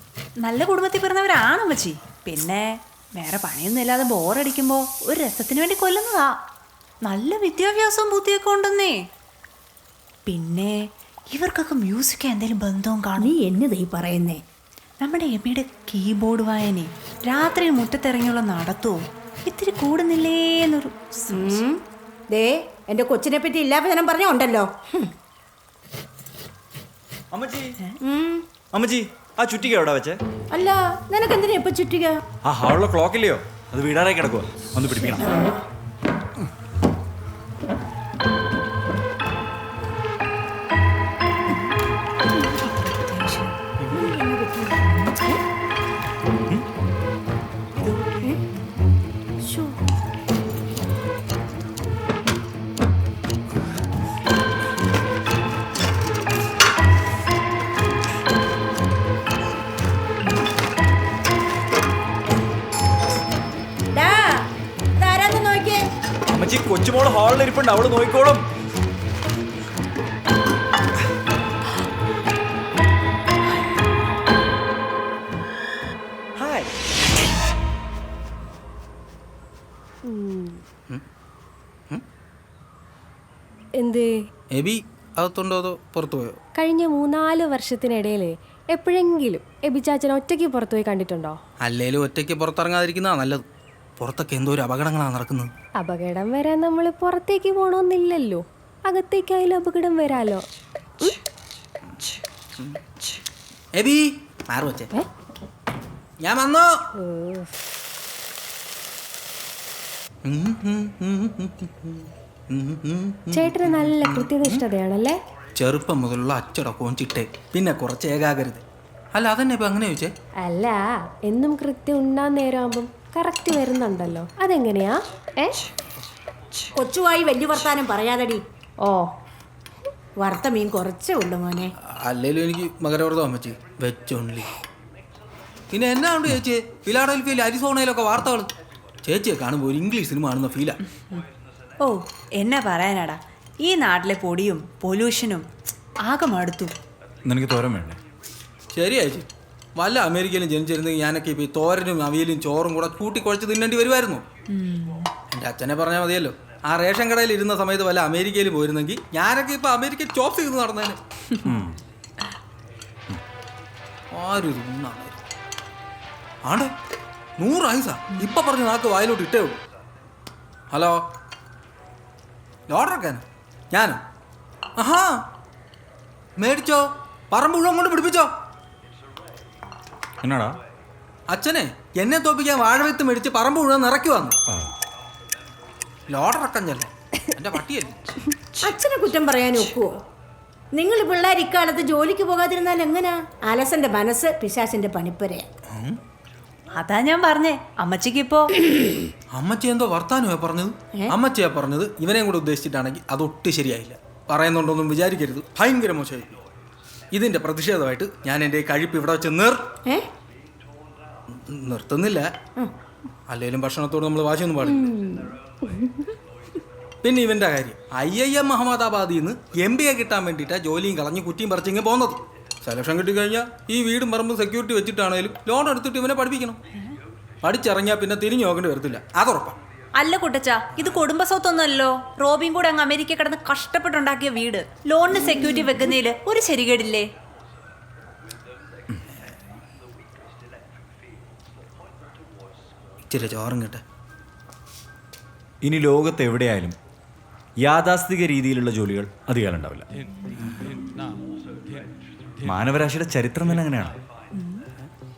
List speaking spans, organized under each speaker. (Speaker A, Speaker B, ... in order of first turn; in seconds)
Speaker A: 0.4-6.3, 7.0-9.1, 10.2-13.3, 15.0-21.6, 42.4-43.6, 141.8-145.5, 146.0-146.7, 154.5-155.1, 196.7-198.5, 229.9-237.1
Speaker B: 13.2-14.4, 21.3-21.8, 22.3-25.1, 28.0-28.4, 30.5-32.2, 35.3-35.6, 43.9-45.3, 49.4-49.8, 63.9-64.4, 65.0-65.8, 126.8-128.4, 130.2-131.7, 188.6-189.9, 190.7-195.4
Speaker C: 27.3-27.7, 28.7-30.2, 32.4-35.3, 66.3-68.5, 76.3-76.7, 147.2-148.0, 161.4-161.8, 180.2-180.6, 245.6-246.8, 247.6-249.9, 252.4-254.0
Speaker D: 80.0-80.6, 83.8-84.1, 86.6-91.4, 95.8-100.4, 107.0-107.5, 113.3-115.2, 120.4-125.5, 128.8-129.1, 214.6-216.1
Speaker E: 84.5-86.4, 91.6-93.4, 94.0-95.5, 103.8-104.9, 106.2-106.7, 110.2-114.6, 115.6-118.6, 119.1-120.1, 131.8-134.5, 135.7-138.5, 139.1-140.8, 148.7-154.2, 155.3-161.0, 164.1-165.1, 166.4-166.7, 167.4-169.6, 170.7-171.0, 172.7-174.0, 174.8-175.2, 176.4-178.3, 181.3-184.4, 186.1-188.2, 195.7-196.0, 199.3-206.4, 207.1-209.6, 211.5-212.2, 213.3-214.9, 217.0-226.6, 227.4-229.6, 230.7-231.1, 243.1-243.8